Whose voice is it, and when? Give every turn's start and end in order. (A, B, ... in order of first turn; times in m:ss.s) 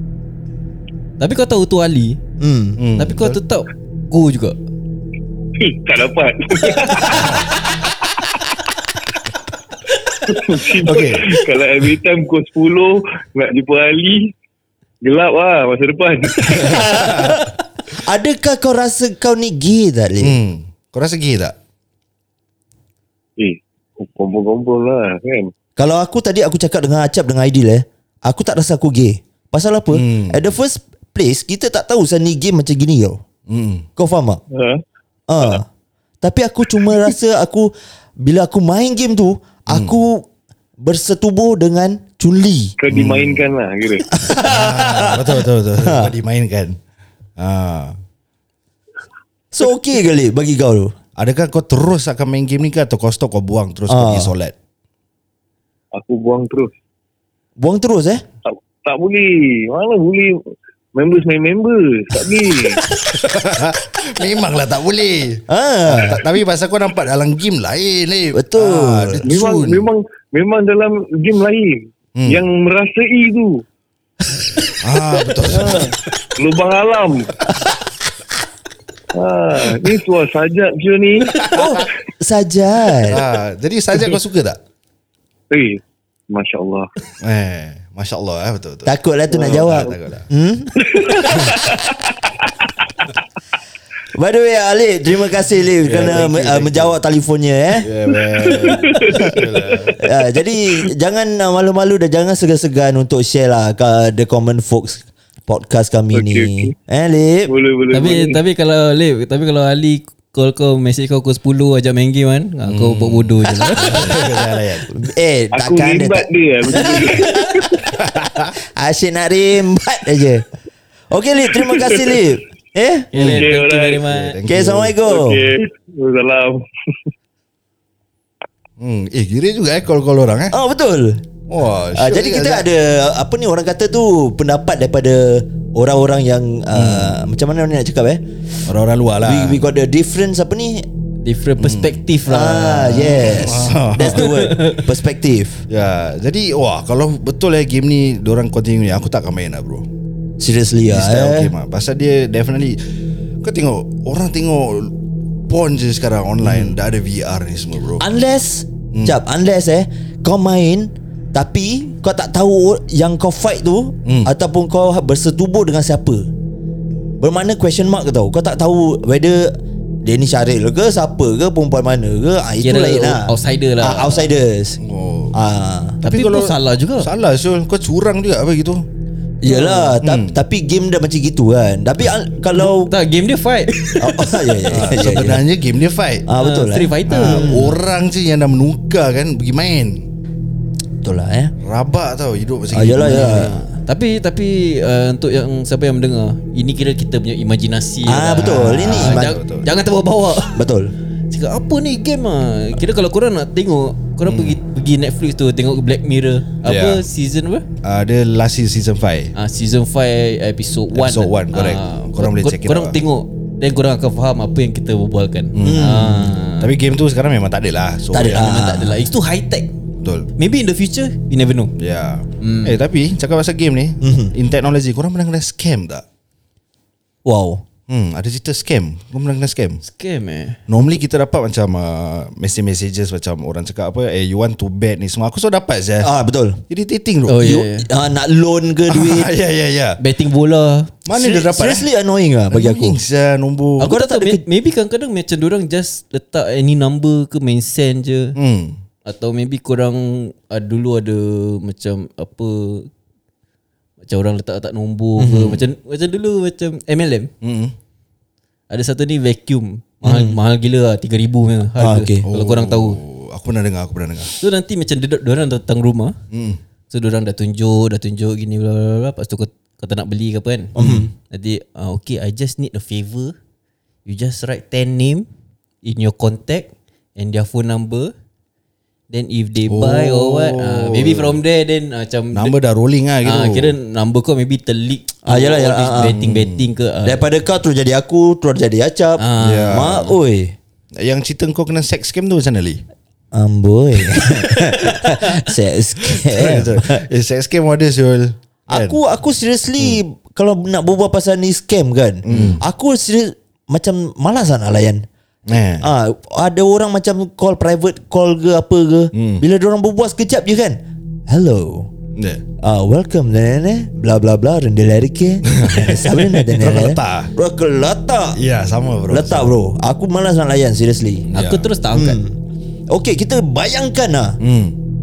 0:01.2-0:02.2 A
0:02.4-0:02.8 B
0:02.8-0:03.4 C
0:03.0-0:04.6 A
0:05.6-0:07.4 D
0:07.1-0:07.4 C
0:10.2-0:14.3 D
0:10.8-0:11.3 C
0:15.0-0:17.4 D
0:16.5-0:20.4 B
0:16.6-0:17.4 C
0:20.2-0:21.5 C
0:23.4-0:25.5 D
0:25.8-0:33.2 B
0:29.9-0:30.4 C
0:33.5-0:33.9 C
0:34.0-0:34.4 B
0:34.5-0:34.8 D
0:35.3-0:35.7 B
0:36.2-0:40.3 B
0:39.7-0:39.9 C
0:40.8-0:42.7 B
0:42.8-0:44.1 D
0:42.9-0:43.5 C
0:44.1-0:46.1 B
0:44.4-0:46.8 C
0:47.4-0:47.9 C
0:49.5-0:50.9 B
0:51.2-0:54.5 C
0:53.9-0:54.3 B
0:55.9-0:56.7 D
0:57.6-0:58.2 B
0:58.4-1:00.4 D
1:00.9-1:02.8 D
1:03.1-1:09.8 C
1:05.5-1:06.2 B
1:08.3-1:09.2 B
1:09.2-1:13.6 D
1:12.2-1:12.4 C
1:14.8-1:15.9 C
1:15.4-1:17.3 D
1:15.5-1:15.9 B
1:19.1-1:21.6 D
1:21.5-1:23.2 B
1:23.0-1:24.6 C
1:25.5-1:26.9 D
1:27.2-1:30.3 C
1:28.8-1:31.7 B
1:29.3-1:29.9 D
1:30.8-1:31.9 D
1:34.1-1:37.9 B
1:35.8-1:36.9 C
1:37.7-1:40.0 C
1:38.1-1:39.9 D
1:39.1-1:39.3 B
1:40.0-1:47.5 B
1:46.1-1:46.7 D
1:47.5-1:48.4 D
1:47.9-1:54.2 A
1:52.6-1:54.9 C
1:53.6-1:54.2 B
1:54.9-1:57.6 B
1:55.5-1:57.8 D
1:58.0-1:58.5 C
1:58.8-2:00.4 B
2:01.1-2:03.2 B
2:01.6-2:02.1 D
2:03.1-2:04.4 A
2:03.1-2:03.5 C
2:03.2-2:04.0 D
2:04.1-2:05.0 C
2:04.5-2:05.5 B
2:05.0-2:07.1 D
2:08.8-2:10.5 C
2:10.5-2:11.2 B
2:11.5-2:12.6 C
2:11.9-2:18.2 B
2:16.7-2:17.2 C
2:18.6-2:19.6 C
2:19.2-2:20.8 B
2:21.2-2:23.4 A
2:21.6-2:22.0 C
2:22.3-2:25.6 B
2:23.1-2:24.3 C
2:24.1-2:24.8 A
2:25.7-2:29.8 C
2:30.4-2:31.5 B
2:30.9-2:32.8 C
2:33.4-2:34.9 C
2:35.5-2:38.0 C
2:36.4-2:36.7 B
2:38.0-2:46.2 B
2:44.0-2:44.3 C
2:47.2-2:54.8 B
2:52.6-2:54.3 A
2:54.8-2:55.4 C
2:55.3-2:56.0 B
2:56.0-2:57.1 A
2:56.0-2:58.8 C
2:59.4-3:02.9 B
2:59.5-3:00.0 A
3:00.0-3:00.4 C
3:02.5-3:04.7 A
3:04.0-3:05.4 B
3:04.7-3:06.3 C
3:06.3-3:07.8 B
3:06.4-3:07.7 A
3:07.1-3:10.0 C
3:11.0-3:11.5 B
3:11.6-3:13.5 C
3:12.7-3:13.6 B
3:13.0-3:20.6 A
3:18.0-3:19.3 B
3:18.4-3:19.7 C
3:20.5-3:20.9 B
3:21.3-3:27.6 A
3:24.2-3:24.6 C
3:26.6-3:27.0 C
3:27.8-3:29.3 C
3:29.3-3:36.7 A
3:30.9-3:33.0 C
3:35.5-3:36.0 C
3:35.6-3:36.3 B
3:36.6-3:38.5 C
3:38.1-3:39.1 B
3:38.2-3:39.7 A
3:40.0-3:40.3 C
3:40.4-3:41.7 A
3:41.8-3:46.0 C
3:42.4-3:42.8 A
3:44.0-3:44.3 B
3:47.2-3:47.6 B
3:47.9-3:49.8 C
3:49.8-3:50.6 A
3:50.7-3:56.1 C
3:56.0-3:56.6 B
3:56.7-3:57.5 C
3:57.3-3:57.9 A
3:57.3-3:59.3 B
3:58.9-4:00.0 C
4:00.0-4:01.0 A
4:01.0-4:01.9 C
4:01.1-4:03.0 B
4:02.5-4:03.9 C
4:03.8-4:04.4 B
4:03.8-4:08.4 A
4:08.4-4:08.8 C
4:09.0-4:12.9 A
4:14.0-4:17.3 A
4:15.2-4:15.6 B
4:17.4-4:17.7 C
4:18.7-4:23.0 A
4:20.0-4:20.4 B
4:21.8-4:22.2 B
4:22.3-4:24.3 C
4:24.4-4:26.2 A
4:26.3-4:26.6 C
4:26.9-4:30.8 A
4:30.7-4:31.1 B
4:30.8-4:31.1 C
4:31.3-4:33.3 A
4:34.0-4:35.2 A
4:35.8-4:38.1 A
4:39.1-4:42.5 A
4:39.7-4:41.4 C
4:42.3-4:43.7 C
4:43.2-4:47.2 A
4:45.2-4:46.2 B
4:46.0-4:46.7 C
4:47.0-4:50.6 B
4:49.2-4:50.0 A
4:49.4-4:50.1 C
4:51.0-4:52.8 C
4:53.3-4:57.0 B
4:54.8-4:55.4 A
4:56.1-4:59.0 C
4:58.7-5:05.0 B
5:02.2-5:02.6 C
5:05.5-5:05.9 C
5:05.8-5:11.9 B
5:09.1-5:09.4 C
5:12.2-5:12.4 C
5:12.6-5:18.4 B
5:15.5-5:17.3 C
5:18.3-5:19.5 C
5:19.1-5:21.3 B
5:21.3-5:21.7 C
5:21.3-5:22.2 A
5:21.9-5:22.4 B
5:22.9-5:24.4 B
5:24.4-5:24.7 C